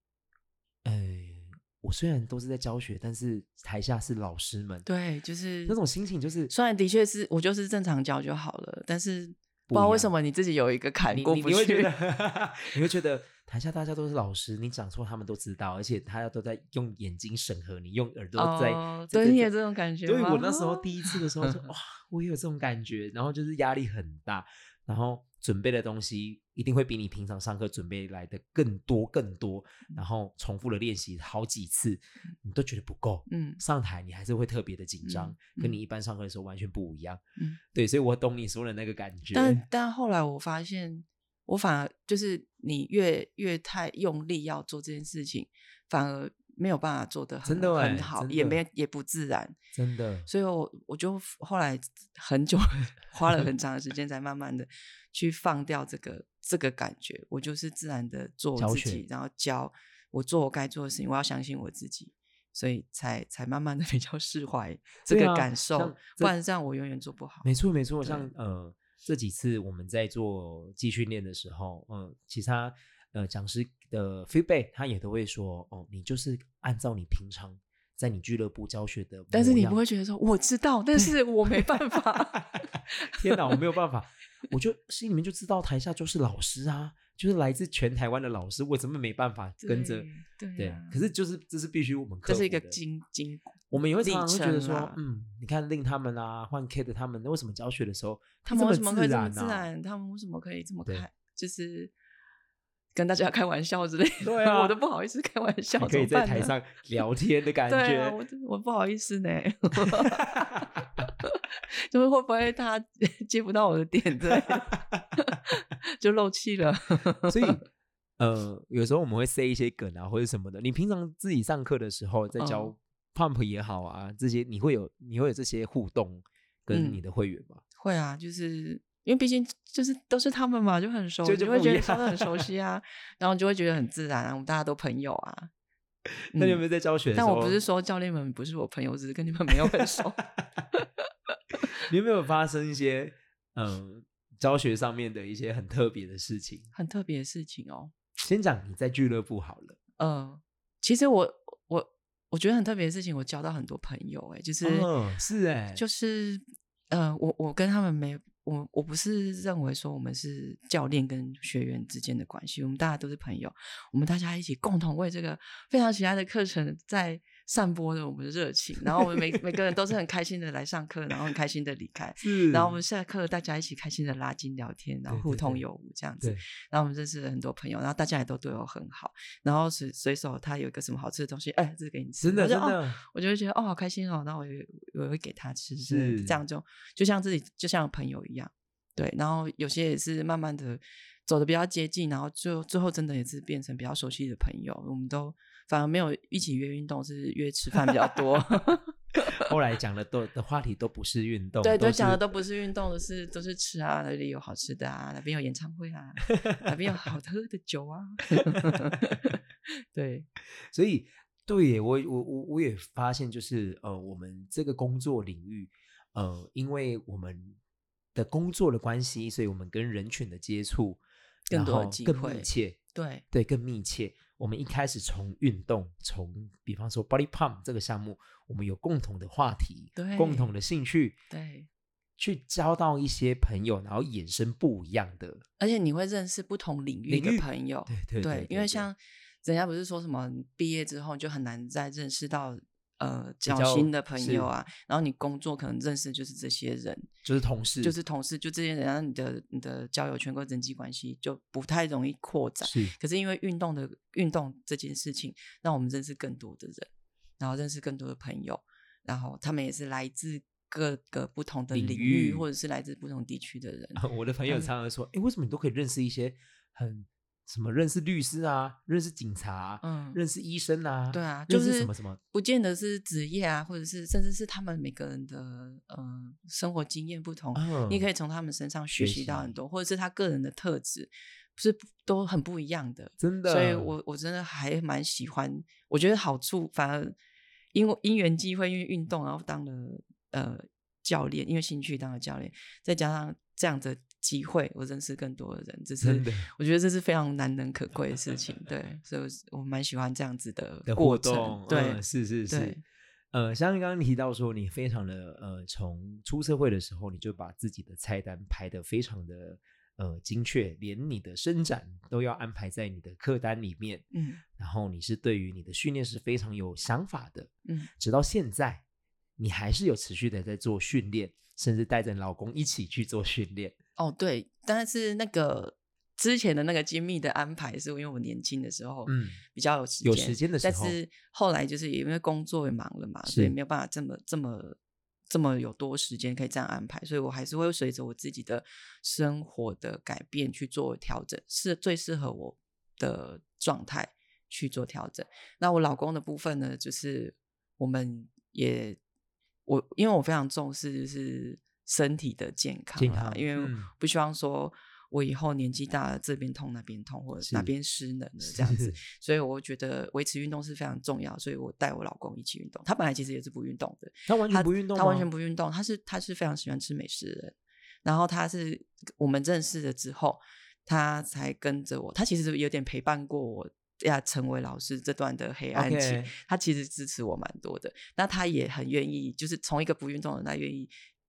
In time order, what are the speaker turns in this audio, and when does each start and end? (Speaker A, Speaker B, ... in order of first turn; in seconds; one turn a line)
Speaker A: 0.8-4.8
Speaker B: 4.8-5.8
Speaker A: 5.7-6.5
Speaker B: 6.5-11.9
Speaker A: 9.7-10.1
Speaker A: 11.1-19.5
Speaker B: 18.4-21.7
Speaker A: 20.0-37.2
Speaker B: 33.3-33.6
Speaker B: 35.0-35.8
Speaker A: 37.7-39.6
Speaker B: 39.3-49.6
Speaker A: 47.4-48.6
Speaker A: 49.7-50.3
Speaker B: 50.3-67.5
Speaker A: 58.6-59.0
Speaker A: 65.1-66.3
Speaker A: 67.4-79.8
Speaker B: 68.0-68.3
Speaker B: 79.3-83.6
Speaker A: 81.0-81.7
Speaker A: 82.5-92.8
Speaker B: 89.6-91.0
Speaker B: 92.2-95.0
Speaker A: 93.7-99.7
Speaker B: 98.5-101.9
Speaker B: 102.9-106.5
Speaker A: 104.2-104.7
Speaker A: 105.8-108.2
Speaker B: 107.7-117.6
Speaker A: 109.9-111.1
Speaker A: 114.6-115.0
Speaker A: 117.3-117.6
Speaker A: 118.2-127.6
Speaker B: 122.4-122.7
Speaker B: 126.7-127.0
Speaker B: 127.8-135.5
Speaker A: 131.2-132.5
Speaker A: 136.3-137.6
Speaker B: 136.3-136.6
Speaker B: 137.1-140.2
Speaker B: 140.7-141.0
Speaker A: 141.8-146.7
Speaker B: 146.7-147.9
Speaker A: 148.2-149.8
Speaker B: 150.0-154.9
Speaker A: 154.6-155.8
Speaker B: 155.7-199.5
Speaker A: 172.2-172.8
Speaker A: 175.1-175.6
Speaker A: 182.2-183.0
Speaker A: 185.8-186.4
Speaker A: 199.3-202.2
Speaker B: 201.6-209.4
Speaker B: 209.9-210.3
Speaker A: 210.7-217.6
Speaker A: 218.1-222.8
Speaker B: 221.5-223.2
Speaker A: 223.3-231.2
Speaker B: 229.9-230.5
Speaker B: 231.3-231.7
Speaker A: 232.2-235.4
Speaker B: 235.6-247.1
Speaker A: 237.1-238.9
Speaker A: 243.4-244.5
Speaker A: 247.2-247.9
Speaker B: 247.8-256.9
Speaker A: 252.6-252.9
Speaker B: 257.4-264.7
Speaker A: 261.7-262.4
Speaker A: 263.9-272.2
Speaker B: 269.8-270.2
Speaker B: 271.1-287.1
Speaker A: 277.5-278.0
Speaker A: 278.9-279.6
Speaker A: 283.2-283.9
Speaker B: 287.7-302.8
Speaker A: 296.0-296.5
Speaker A: 300.9-302.8
Speaker A: 303.3-314.1
Speaker B: 314.1-314.4
Speaker A: 314.6-318.8
Speaker A: 319.4-323.7
Speaker B: 324.0-334.8
Speaker A: 329.1-329.4
Speaker A: 330.0-330.9
Speaker A: 333.3-333.5
Speaker B: 335.3-349.0
Speaker B: 349.6-380.9
Speaker A: 353.0-353.9
Speaker A: 357.4-357.7
Speaker A: 358.4-359.0
Speaker A: 364.3-365.3
Speaker A: 375.7-376.3